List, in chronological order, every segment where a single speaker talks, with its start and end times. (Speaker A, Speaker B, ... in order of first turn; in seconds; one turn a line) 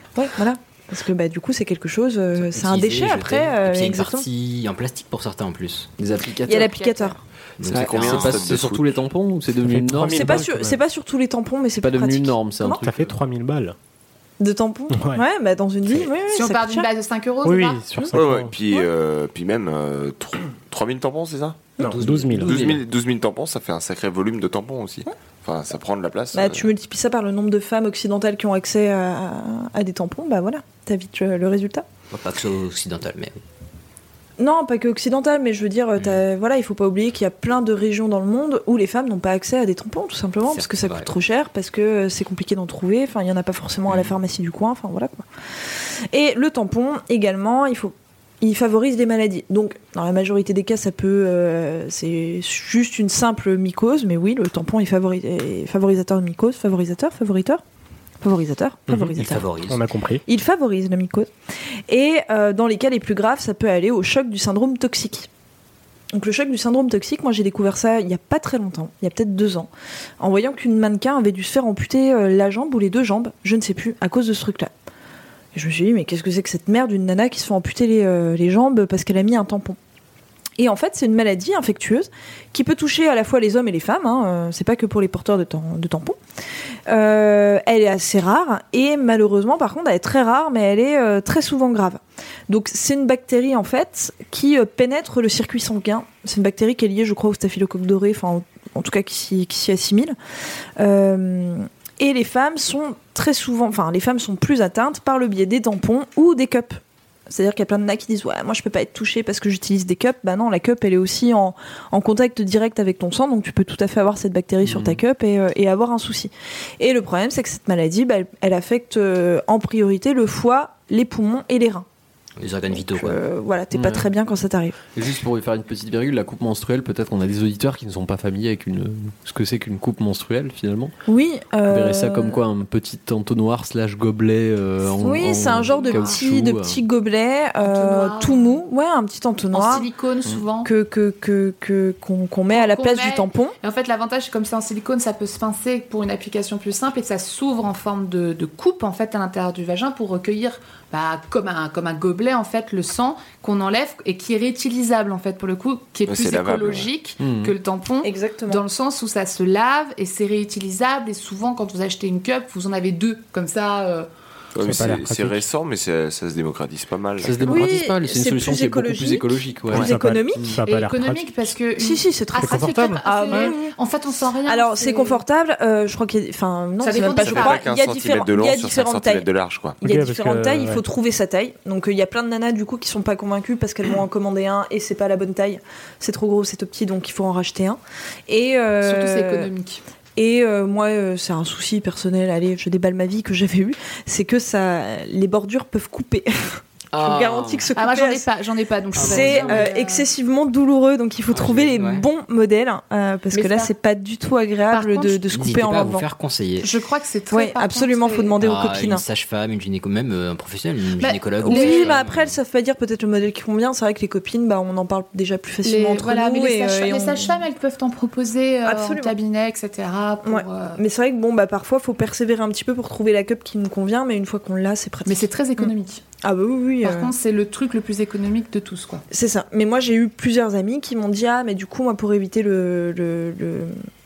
Speaker A: 0.1-4.2
Speaker B: 2.3-5.9
Speaker C: 6.0-6.7
Speaker A: 6.5-7.2
Speaker D: 6.5-7.2
Speaker B: 7.6-8.6
Speaker E: 7.7-8.9
Speaker C: 7.7-10.8
Speaker F: 9.7-10.6
Speaker A: 10.1-12.8
Speaker C: 11.8-13.2
Speaker F: 12.8-13.7
Speaker A: 14.4-16.9
Speaker F: 14.9-15.2
Speaker D: 16.3-17.9
Speaker F: 17.4-18.5
Speaker E: 18.1-21.8
Speaker F: 21.8-22.8
Speaker B: 21.8-22.6
Speaker E: 22.4-26.7
Speaker C: 22.4-22.8
Speaker A: 26.3-31.8
Speaker B: 32.1-33.4
Speaker A: 34.4-45.3
Speaker B: 40.5-41.1
Speaker A: 46.1-57.6
Speaker A: 58.2-59.5
Speaker F: 58.9-60.2
Speaker B: 59.2-59.8
Speaker A: 60.3-61.3
Speaker A: 61.9-65.3
Speaker A: 66.1-69.7
Speaker A: 70.2-74.7
Speaker A: 75.5-79.8
Speaker A: 80.6-86.2
Speaker A: 86.9-100.2
Speaker A: 100.8-121.8
Speaker C: 114.6-115.0
Speaker B: 122.4-123.2
Speaker A: 122.7-124.8
Speaker C: 123.7-124.1
Speaker C: 124.9-130.9
Speaker A: 131.1-132.4
Speaker C: 131.7-136.8
Speaker A: 135.0-139.9
Speaker D: 135.5-136.2
Speaker D: 137.6-138.6
Speaker D: 139.5-140.7
Speaker A: 140.6-143.6
Speaker D: 142.5-164.1
Speaker E: 156.1-156.9
Speaker C: 157.2-157.6
Speaker A: 158.0-158.6
Speaker E: 164.6-167.7
Speaker F: 164.6-165.4
Speaker C: 167.2-170.6
Speaker A: 167.4-170.5
Speaker F: 169.7-171.4
Speaker D: 170.7-175.2
Speaker A: 171.8-173.7
Speaker F: 172.4-173.5
Speaker A: 174.4-179.3
Speaker D: 176.8-177.6
Speaker E: 177.1-179.8
Speaker A: 179.8-189.5
Speaker F: 179.8-180.8
Speaker D: 188.8-189.8
Speaker A: 190.2-198.3
Speaker B: 196.9-197.7
Speaker D: 197.7-200.1
Speaker A: 198.9-206.1
Speaker B: 198.9-199.6
Speaker B: 201.3-202.1
Speaker D: 203.3-203.7
Speaker D: 204.7-205.3
Speaker B: 205.3-206.7
Speaker D: 206.6-208.4
Speaker A: 207.3-209.0
Speaker B: 208.4-212.4
Speaker D: 211.0-212.0
Speaker A: 211.4-217.4
Speaker D: 215.6-220.8
Speaker A: 218.6-219.1
Speaker A: 220.2-225.7
Speaker D: 225.1-226.1
Speaker A: 226.2-227.1
Speaker D: 226.8-229.0
Speaker A: 229.1-233.8